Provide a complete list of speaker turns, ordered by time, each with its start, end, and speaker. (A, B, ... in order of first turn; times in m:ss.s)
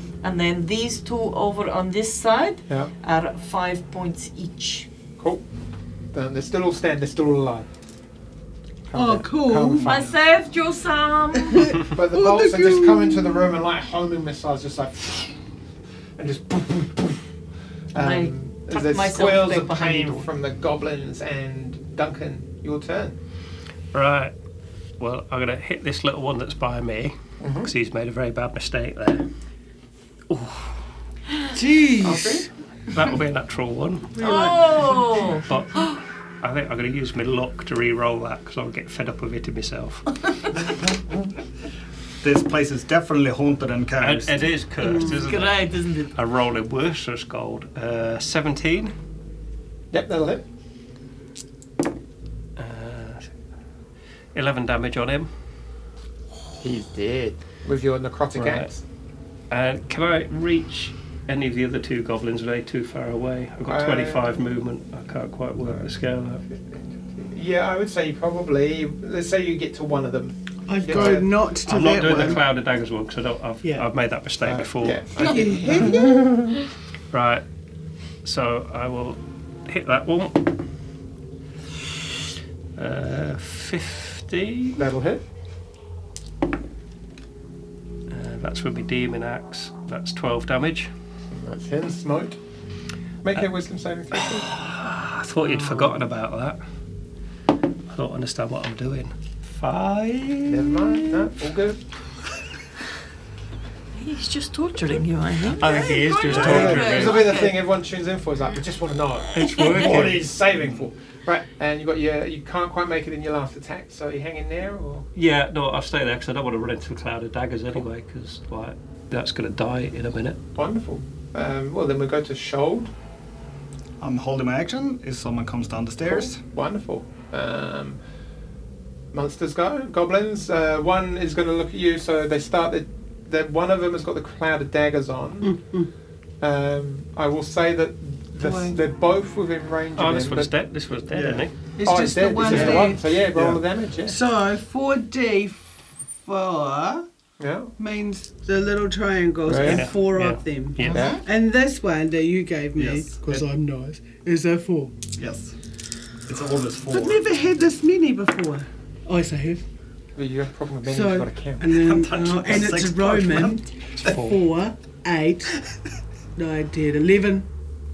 0:00.2-0:04.9 A
0:05.2-0:05.4 B
0:06.1-0:07.7 B
0:08.9-0:10.1 B
0:08.9-0:09.9 C
0:09.8-0:11.8 A
0:11.4-0:13.4 C
0:11.8-0:15.4 B
0:16.2-0:17.2 B
0:17.9-0:23.2 B
0:18.0-0:20.3 A
0:23.9-0:24.3 D
0:25.0-0:29.3 D
0:27.4-0:27.7 B
0:30.3-0:30.8 D
0:31.5-0:32.5 C
0:32.0-0:32.5 B
0:32.9-0:34.2 D
0:34.2-0:35.2 C
0:34.2-0:35.5 A
0:35.4-0:40.2 D
0:40.6-0:41.3 B
0:42.2-0:44.3 E
0:44.0-0:48.9 D
0:45.0-0:46.2 A
0:49.9-0:50.4 B
0:52.6-0:53.3 D
0:54.4-0:55.3 D
0:56.6-0:58.8 B
0:58.4-0:58.7 D
0:59.5-1:06.4 D
1:03.7-1:04.4 B
1:05.6-1:11.4 B
1:10.7-1:12.4 C
1:11.6-1:15.9 D
1:12.0-1:12.4 B
1:14.4-1:16.6 B
1:15.2-1:16.3 C
1:17.1-1:17.4 D
1:18.2-1:20.6 D
1:22.8-1:24.8 D
1:24.8-1:25.3 B
1:28.1-1:30.9 D
1:31.3-1:32.4 B
1:33.2-1:34.5 B
1:34.5-1:36.6 D
1:37.9-1:41.3 D
1:40.5-1:41.8 B
1:43.9-1:47.6 A
1:45.6-1:47.4 D
1:46.3-1:47.0 E
1:46.3-1:55.1 B
1:49.3-1:50.3 D
1:55.2-2:00.4 D
2:00.6-2:02.9 B
2:04.0-2:06.4 E
2:06.1-2:08.0 B
2:09.1-2:15.6 B
2:15.4-2:15.9 C
2:16.4-2:20.5 B
2:18.4-2:18.8 C
2:20.0-2:21.6 D
2:21.1-2:21.5 E
2:21.8-2:23.1 C
2:21.8-2:24.2 B
2:22.4-2:23.6 E
2:24.0-2:25.6 C
2:26.3-2:27.1 C
2:27.4-2:27.7 B
2:27.8-2:35.0 C
2:29.4-2:29.9 B
2:29.6-2:31.0 D
2:30.9-2:31.2 A
2:30.9-2:31.2 B
2:32.8-2:33.2 E
2:35.2-2:35.5 E
2:36.3-2:37.2 E
2:36.9-2:39.6 C
2:40.2-2:41.7 B
2:40.9-2:45.6 C
2:41.7-2:43.6 E
2:46.4-2:47.5 C